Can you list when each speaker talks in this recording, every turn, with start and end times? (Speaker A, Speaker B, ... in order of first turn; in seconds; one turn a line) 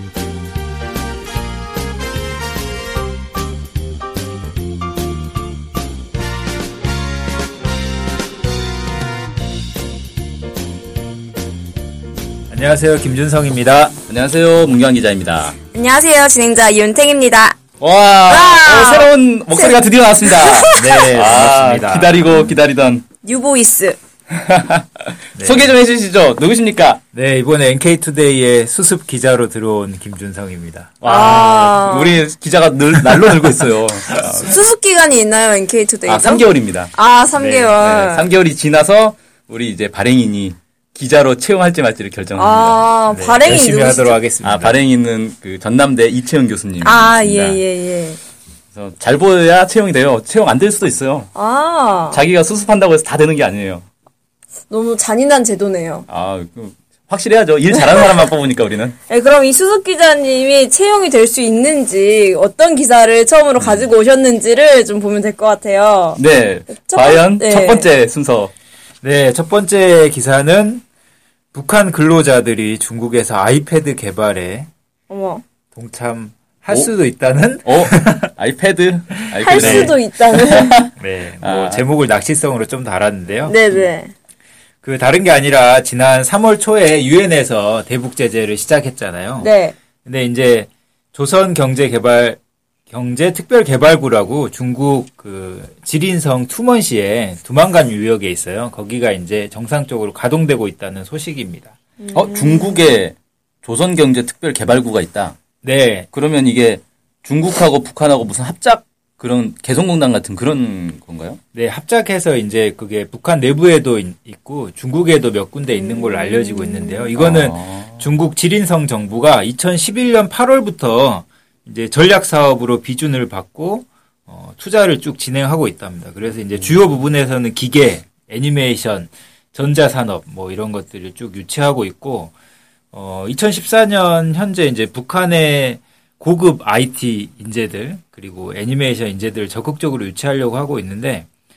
Speaker A: 12.5-13.9
Speaker B: 14.1-15.6
Speaker C: 15.7-17.6
Speaker B: 17.8-23.0
Speaker C: 18.3-21.0
Speaker A: 20.7-22.4
Speaker C: 23.2-24.0
Speaker B: 24.3-27.0
Speaker A: 25.3-25.7
Speaker A: 27.1-31.3
Speaker B: 31.0-34.6
Speaker C: 31.0-32.2
Speaker A: 32.9-33.4
Speaker A: 34.1-34.4
Speaker C: 34.4-38.3
Speaker B: 36.0-36.9
Speaker A: 37.4-37.7
Speaker B: 37.8-42.9
Speaker C: 42.3-44.2
Speaker A: 43.1-44.8
Speaker B: 44.4-47.6
Speaker C: 46.8-48.2
Speaker B: 48.7-51.3
Speaker C: 51.3-52.2
Speaker B: 52.1-53.8
Speaker C: 54.7-56.0
Speaker B: 56.1-59.0
Speaker C: 57.9-58.2
Speaker C: 59.1-67.9
Speaker B: 63.6-63.9
Speaker B: 66.2-68.5
Speaker A: 69.0-70.8
Speaker A: 71.5-74.7
Speaker C: 75.1-75.4
Speaker A: 75.7-78.3
Speaker B: 77.6-80.9
Speaker A: 79.1-80.0
Speaker C: 79.4-80.8
Speaker A: 80.8-83.6
Speaker B: 81.4-81.8
Speaker C: 83.5-84.1
Speaker A: 84.8-89.5
Speaker C: 89.4-89.7
Speaker A: 90.0-101.7
Speaker C: 102.0-102.8
Speaker B: 102.1-105.4
Speaker A: 105.6-106.1
Speaker B: 106.1-111.4
Speaker A: 111.5-132.3
Speaker C: 115.8-117.1
Speaker B: 117.2-118.1
Speaker A: 132.9-141.3